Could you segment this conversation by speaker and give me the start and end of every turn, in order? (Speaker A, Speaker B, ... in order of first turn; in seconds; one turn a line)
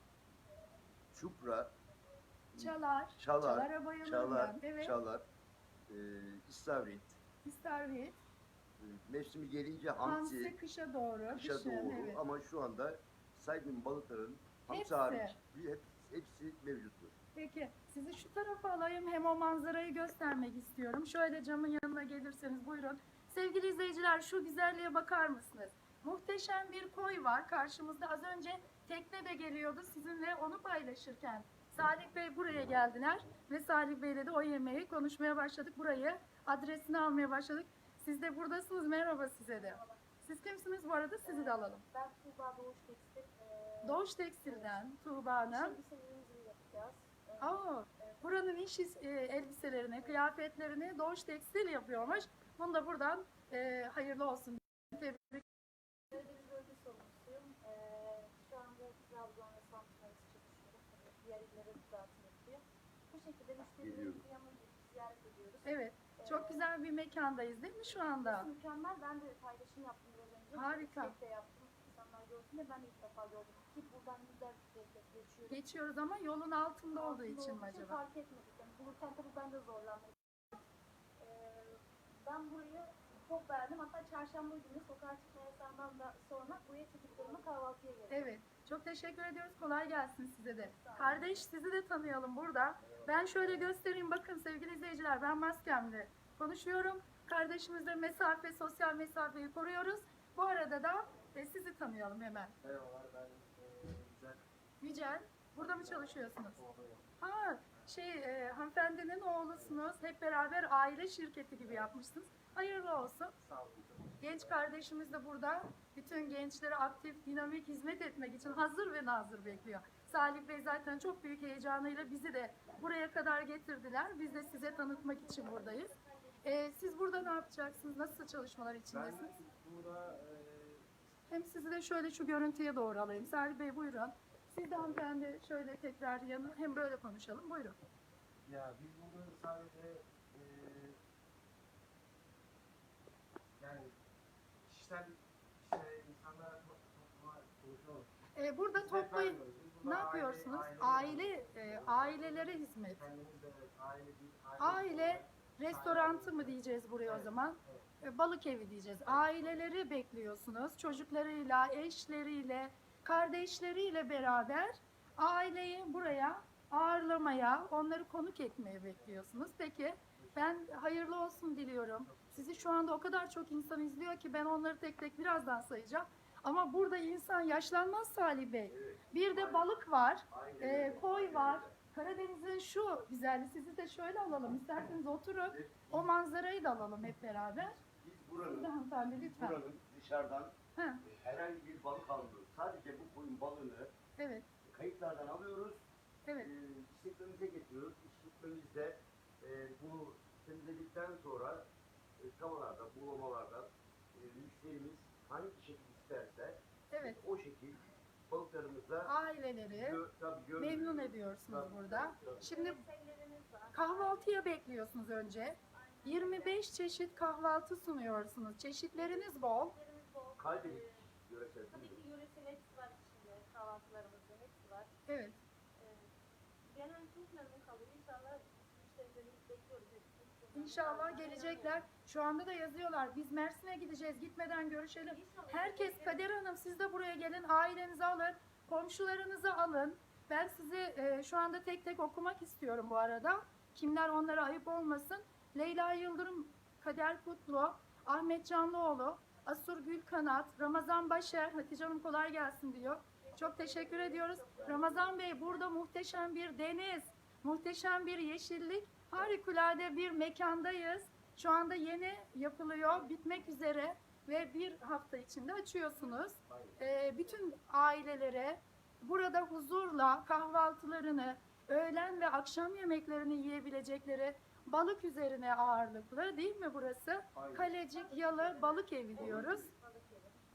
Speaker A: 1.1-1.7
Speaker A: 2.5-5.2
Speaker B: 2.6-5.0
Speaker A: 5.9-7.2
Speaker B: 7.4-8.2
Speaker A: 8.8-10.6
Speaker B: 10.0-12.2
Speaker A: 11.3-17.1
Speaker B: 14.7-15.4
Speaker B: 17.4-41.8
Speaker C: 39.5-40.0
Speaker C: 41.2-44.8
Speaker B: 43.8-45.8
Speaker C: 45.5-48.2
Speaker B: 47.4-55.5
Speaker C: 49.8-50.2
Speaker C: 56.1-66.7
Speaker A: 63.8-64.2
Speaker B: 65.7-68.5
Speaker C: 68.2-75.6
Speaker B: 70.5-71.2
Speaker B: 75.5-78.0
Speaker C: 76.9-80.2
Speaker C: 81.2-88.3
Speaker B: 88.1-102.5
Speaker C: 90.6-91.4
Speaker D: 92.9-93.7
Speaker D: 102.6-104.4
Speaker B: 104.8-106.6
Speaker D: 105.6-107.1
Speaker B: 107.2-113.3
Speaker D: 113.4-114.5
Speaker B: 114.2-125.9
Speaker C: 124.2-127.4
Speaker B: 126.4-129.4
Speaker D: 128.9-130.9
Speaker B: 131.3-137.8
Speaker D: 138.4-141.0
Speaker D: 143.6-144.0
Speaker D: 144.7-148.1
Speaker B: 148.3-153.0
Speaker D: 148.8-157.9
Speaker B: 154.6-187.8
Speaker D: 159.1-159.5
Speaker D: 170.2-170.6
Speaker D: 172.1-172.6
Speaker A: 178.7-179.7
Speaker A: 180.3-181.8
Speaker A: 185.5-186.1
Speaker A: 187.9-193.9
Speaker B: 188.4-189.6
Speaker B: 190.8-191.0
Speaker B: 194.2-194.5
Speaker A: 194.7-195.8
Speaker B: 196.3-196.5
Speaker A: 196.4-201.7
Speaker A: 202.2-209.1
Speaker B: 206.9-207.2
Speaker B: 209.0-210.0
Speaker A: 209.7-212.5
Speaker B: 210.6-212.8
Speaker C: 212.2-214.4
Speaker B: 213.7-219.8
Speaker C: 215.7-216.6
Speaker C: 219.0-221.1
Speaker A: 220.4-222.0
Speaker C: 221.7-224.9
Speaker B: 225.1-225.4
Speaker C: 225.8-226.1
Speaker C: 226.7-231.8
Speaker B: 230.6-279.7
Speaker C: 235.1-236.3
Speaker C: 253.3-255.6
Speaker A: 266.5-266.8
Speaker A: 277.3-277.8
Speaker C: 277.8-280.4
Speaker A: 279.2-279.7